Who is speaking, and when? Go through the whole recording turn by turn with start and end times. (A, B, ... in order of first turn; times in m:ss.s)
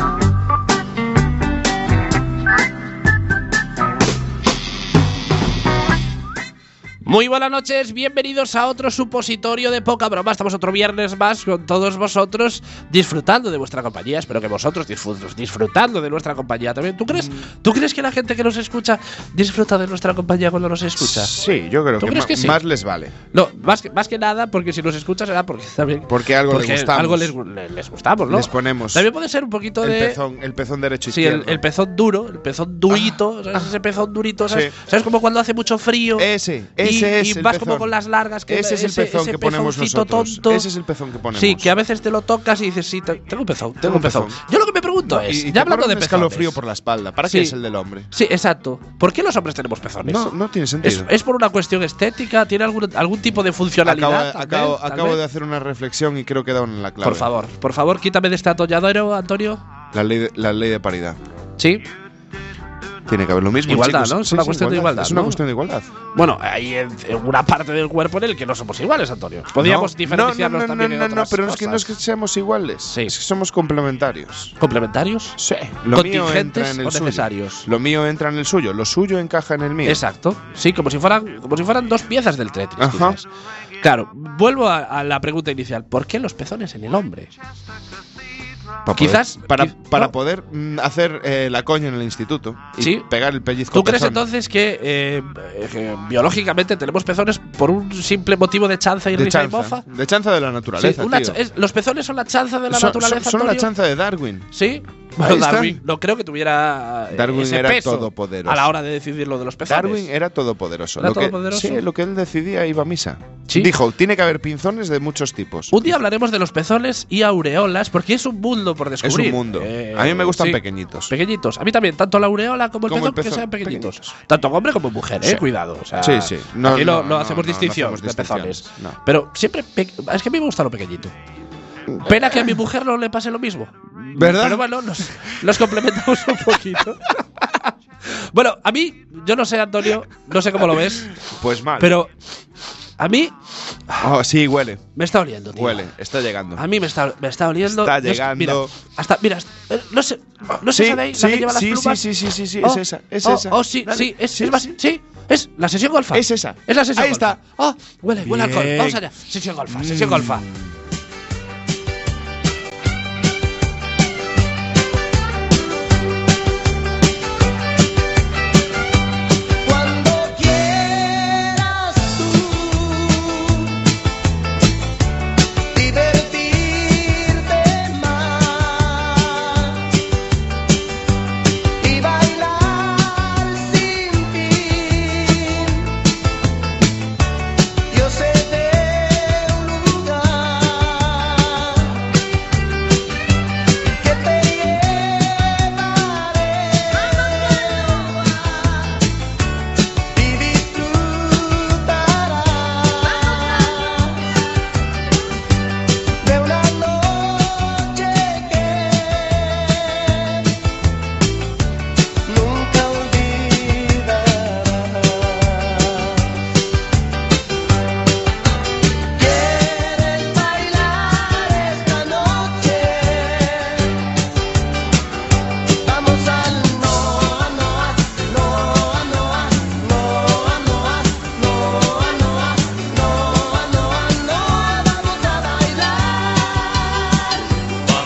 0:07.0-0:21.3 A
0:21.0-0:23.1 B
0:22.0-0:22.6 A
0:23.3-0:30.2 A
0:26.1-0:27.3 B
0:28.3-0:29.1 B
0:29.8-0:31.6 B
0:31.1-0:36.3 A
0:32.9-0:33.2 B
0:34.5-0:34.8 B
0:36.2-0:37.9 B
0:36.8-0:40.7 A
0:38.5-0:41.7 B
0:41.3-0:46.6 A
0:43.8-0:44.4 B
0:45.0-0:48.1 B
0:47.3-0:47.6 A
0:48.1-0:50.2 A
0:50.0-0:51.1 B
0:50.8-0:55.2 A
0:53.8-0:57.3 B
0:57.0-0:59.6 A
0:59.9-1:01.2 B
1:01.6-1:01.8 A
1:03.1-1:05.9 B
1:03.7-1:05.4 A
1:06.1-1:12.0 A
1:09.6-1:14.5 B
1:14.6-1:15.4 A
1:15.4-1:20.0 B
1:15.9-1:17.7 A
1:19.8-1:23.3 A
1:22.8-1:23.2 B
1:23.8-1:27.3 A
1:28.9-1:34.2 B
1:29.0-1:30.1 A
1:32.8-1:33.1 A
1:33.7-1:39.8 A
1:39.1-1:41.4 B
1:40.8-1:43.7 A
1:42.7-1:44.5 B
1:44.5-1:50.1 A
1:45.2-1:45.8 B
1:47.1-1:48.7 B
1:49.7-1:55.9 B
1:51.0-1:51.8 A
1:55.7-2:11.1 A
1:59.0-2:01.1 B
2:02.9-2:04.0 B
2:06.0-2:09.0 B
2:11.9-2:12.5 B
2:12.0-2:21.1 A
2:14.1-2:15.9 B
2:20.8-2:22.0 B
2:21.8-2:22.1 A
2:23.0-2:23.3 A
2:23.9-2:24.9 B
2:25.0-2:25.8 A
2:25.5-2:26.6 B
2:26.6-2:32.1 A
2:27.6-2:28.7 B
2:30.7-2:34.8 B
2:32.6-2:40.4 A
2:36.1-2:37.4 B
2:38.2-2:39.0 B
2:39.7-2:40.8 B
2:49.6-2:53.8 C
2:55.8-2:59.9 C
3:01.8-3:05.9 C
3:07.9-3:12.0 C
3:14.0-3:18.8 C
3:20.2-3:24.2 C
3:26.2-3:30.4 C
3:32.3-3:36.3 C
3:39.2-3:43.9 C
3:45.9-3:57.0 C